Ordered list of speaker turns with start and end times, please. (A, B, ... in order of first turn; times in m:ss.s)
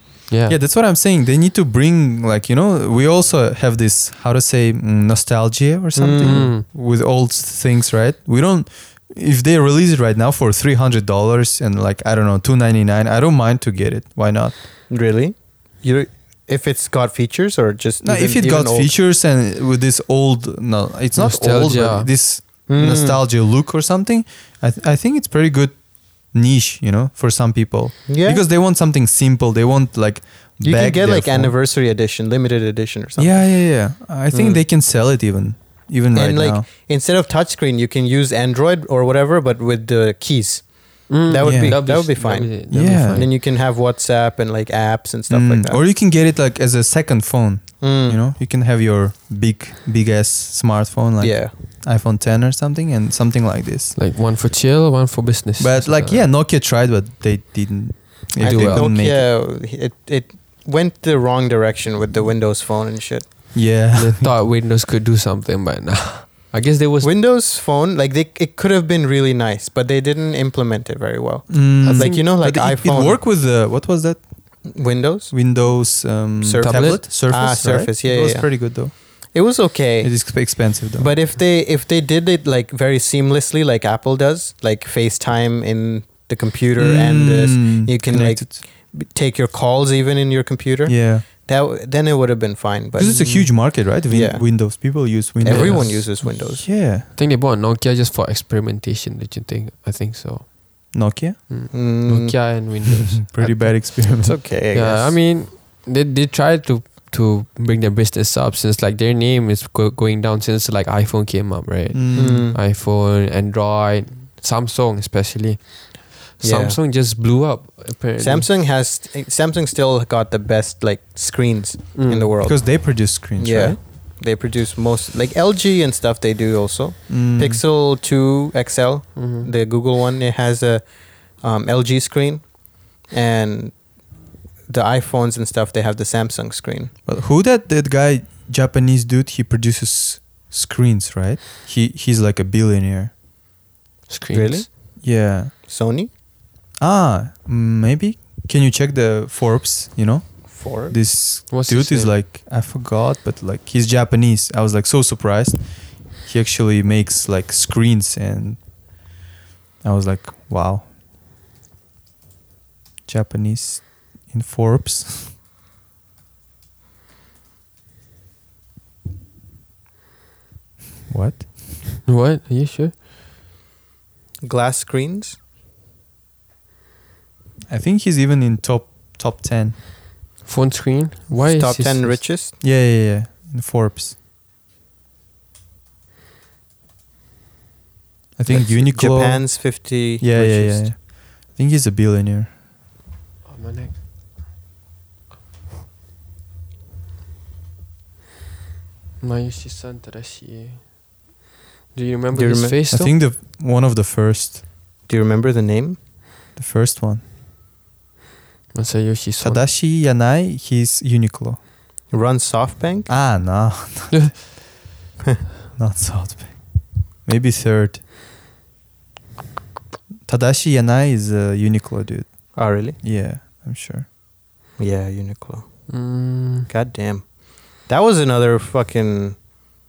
0:00.3-0:00.6 A
0:00.5-0:14.5 B
0:06.0-0:06.5 C
0:06.2-0:06.6 A
0:14.9-0:18.9 C
0:18.0-0:31.5 B
0:21.2-0:22.1 A
0:22.7-0:23.2 C
0:28.1-0:28.4 C
0:30.6-0:33.5 C
0:33.2-0:36.6 B
0:34.3-0:34.6 C
0:36.1-0:45.8 C
0:41.1-0:43.3 A
0:41.4-0:41.9 B
0:42.7-0:43.3 B
0:45.3-0:54.0 B
0:47.8-0:48.2 C
0:51.2-0:51.5 C
0:54.0-0:56.3 A
0:55.6-0:59.3 B
0:58.4-0:58.9 A
0:58.4-1:03.3 C
1:03.5-1:04.3 B
1:03.9-1:07.1 A
1:07.0-1:13.2 C
1:11.5-1:14.2 B
1:11.8-1:12.2 A
1:14.6-1:15.3 C
1:15.3-1:18.9 B
1:16.4-1:33.5 C
1:16.6-1:17.0 A
1:20.0-1:21.1 B
1:26.8-1:28.6 B
1:30.8-1:31.2 B
1:33.0-1:37.0 B
1:33.1-1:33.5 A
1:34.1-1:36.7 C
1:35.4-1:36.0 A
1:37.1-1:40.9 A
1:40.9-1:41.4 B
1:41.5-1:43.9 A
1:41.7-1:42.5 C
1:42.9-1:44.4 B
1:44.2-1:45.3 C
1:44.7-1:58.5 A
1:51.9-1:52.5 B
1:52.1-1:52.6 C
1:56.4-1:56.8 C
1:58.2-2:10.8 C
2:01.9-2:02.3 A
2:02.4-2:03.8 B
2:07.1-2:07.6 B
2:09.2-2:09.5 A
2:11.4-2:13.8 C
2:14.7-2:16.9 C
2:17.1-2:23.1 B
2:24.1-2:24.6 A
2:24.3-2:24.7 C
2:25.0-2:25.5 B
2:25.6-2:26.1 C
2:26.8-2:35.6 B
2:30.5-2:31.0 C
2:31.5-2:32.1 A
2:36.2-2:38.6 B
2:39.8-2:40.9 B
2:43.1-2:45.3 B
2:51.1-2:51.5 B
2:52.0-2:52.9 A
2:54.4-2:55.4 C
2:57.7-2:59.8 B
3:00.4-3:02.2 A
3:01.3-3:02.5 C
3:02.6-3:04.1 B
3:08.4-3:12.5 B
3:08.5-3:10.9 C
3:13.4-3:14.0 A
3:19.2-3:20.8 A
3:21.9-3:23.1 A
3:22.3-3:22.8 C
3:22.9-3:24.6 B
3:25.1-3:26.0 C
3:26.6-3:27.2 B
3:28.7-3:29.6 A
3:29.4-3:31.6 B
3:32.1-3:33.1 C
3:33.1-3:34.4 B
3:35.8-3:36.7 B
3:37.2-3:38.0 B
3:40.3-3:44.0 B
3:42.5-3:43.0 C
3:44.8-3:45.7 C
3:45.9-3:46.7 A
3:46.7-3:47.2 C
3:47.8-3:49.4 C